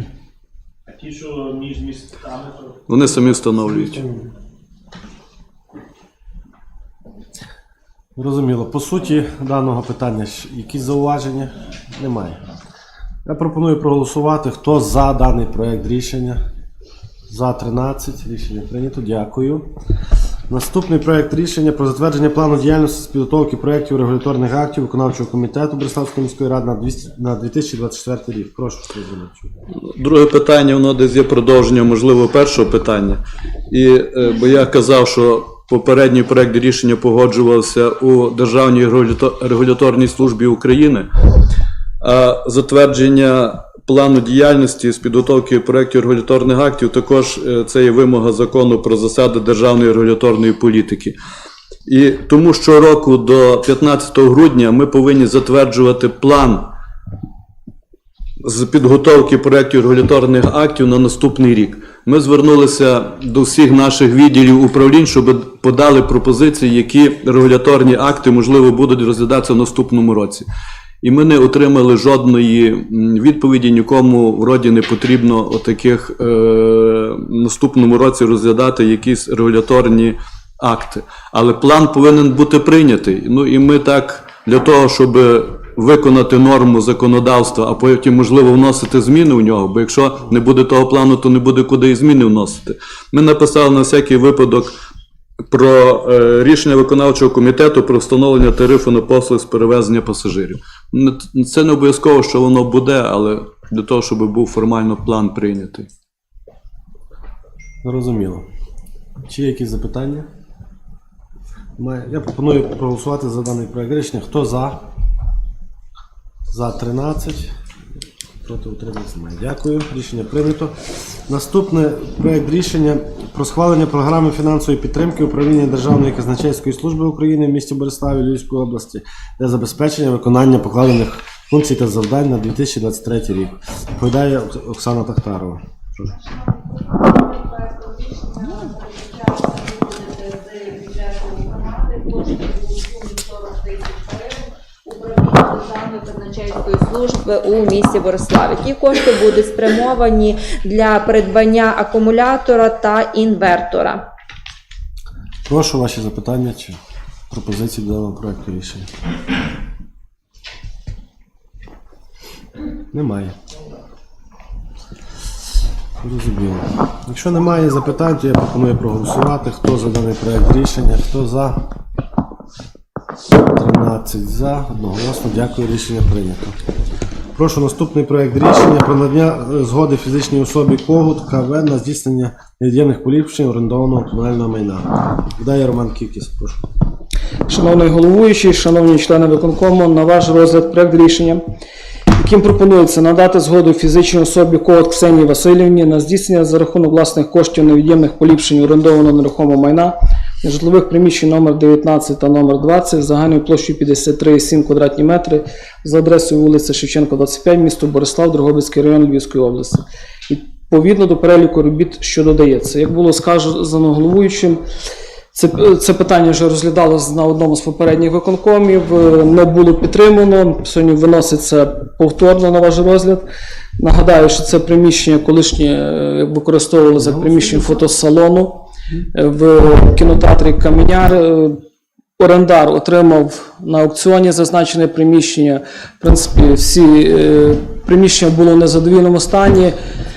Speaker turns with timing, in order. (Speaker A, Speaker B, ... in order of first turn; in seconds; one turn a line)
Speaker A: 0.9-3.3
Speaker B: 2.9-4.0
Speaker C: 8.2-12.4
Speaker C: 13.2-16.4
Speaker C: 17.3-19.7
Speaker C: 20.5-29.5
Speaker B: 29.9-41.1
Speaker B: 42.0-51.1
Speaker B: 51.9-56.6
Speaker B: 58.4-70.5
Speaker B: 71.0-94.7
Speaker B: 95.5-105.9
Speaker C: 107.8-108.4
Speaker C: 109.3-110.3
Speaker C: 111.8-114.8
Speaker C: 116.5-117.5
Speaker C: 118.4-120.7
Speaker C: 121.3-136.2
Speaker D: 137.1-144.3
Speaker D: 144.9-154.0
Speaker C: 155.4-156.8
Speaker C: 157.3-158.9
Speaker C: 162.9-163.3
Speaker C: 166.0-171.6
Speaker C: 173.5-176.5
Speaker C: 177.3-186.7
Speaker E: 187.5-191.4
Speaker E: 192.2-214.6
Speaker E: 215.3-223.3
Speaker E: 223.8-231.6
Speaker C: 227.0-227.7
Speaker E: 232.2-239.8